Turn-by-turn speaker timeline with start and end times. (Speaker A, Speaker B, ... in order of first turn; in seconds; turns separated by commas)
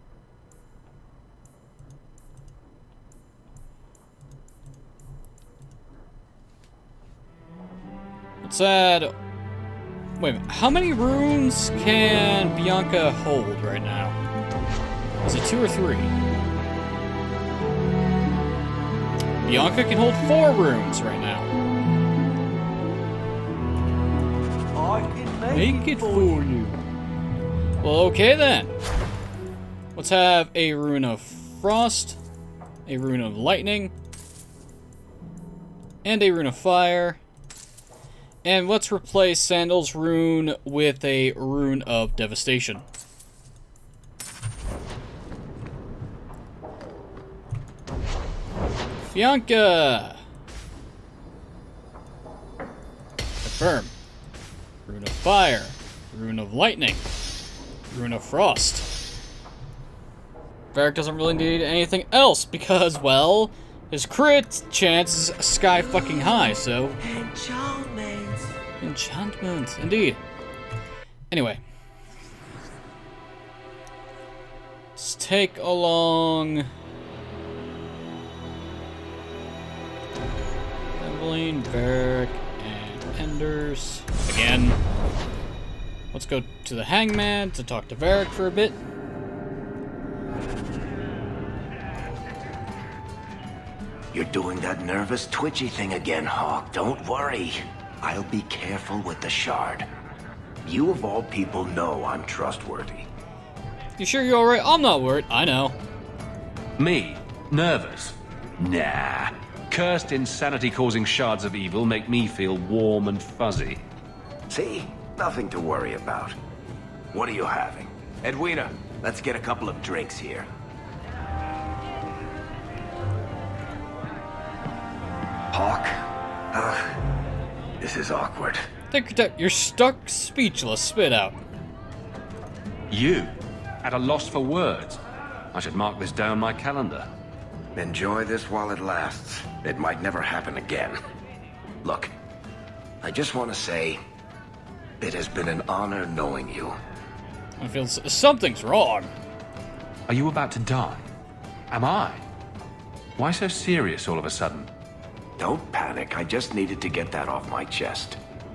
Speaker A: 8.4-9.1, Speaker A: 10.2-14.2, Speaker A: 15.2-16.1, Speaker A: 19.4-21.5, Speaker A: 25.5-26.8, Speaker A: 27.8-28.7, Speaker A: 29.9-32.2, Speaker A: 32.9-33.9, Speaker A: 36.0-37.2, Speaker A: 38.4-42.9, Speaker A: 49.1-50.2, Speaker A: 53.4-53.9, Speaker A: 54.9-57.1, Speaker A: 57.9-58.9, Speaker A: 60.7-67.0, Speaker A: 68.8-70.2, Speaker A: 71.3-71.6, Speaker A: 75.0-76.7, Speaker A: 81.0-84.8, Speaker A: 86.1-88.8, Speaker B: 94.1-99.9, Speaker B: 100.6-103.1, Speaker A: 104.0-105.8, Speaker C: 106.8-113.8, Speaker B: 114.5-116.4, Speaker B: 117.1-120.5, Speaker B: 125.5-126.0, Speaker B: 126.5-127.0, Speaker B: 127.8-128.6, Speaker A: 128.9-131.4, Speaker C: 132.9-133.3, Speaker C: 133.8-135.0, Speaker C: 135.5-137.1, Speaker B: 137.7-141.0, Speaker B: 141.8-142.1, Speaker B: 143.0-144.0, Speaker B: 145.0-146.8, Speaker A: 147.6-149.1, Speaker C: 150.1-151.1, Speaker C: 151.7-152.2, Speaker C: 153.2-154.7, Speaker B: 155.4-158.2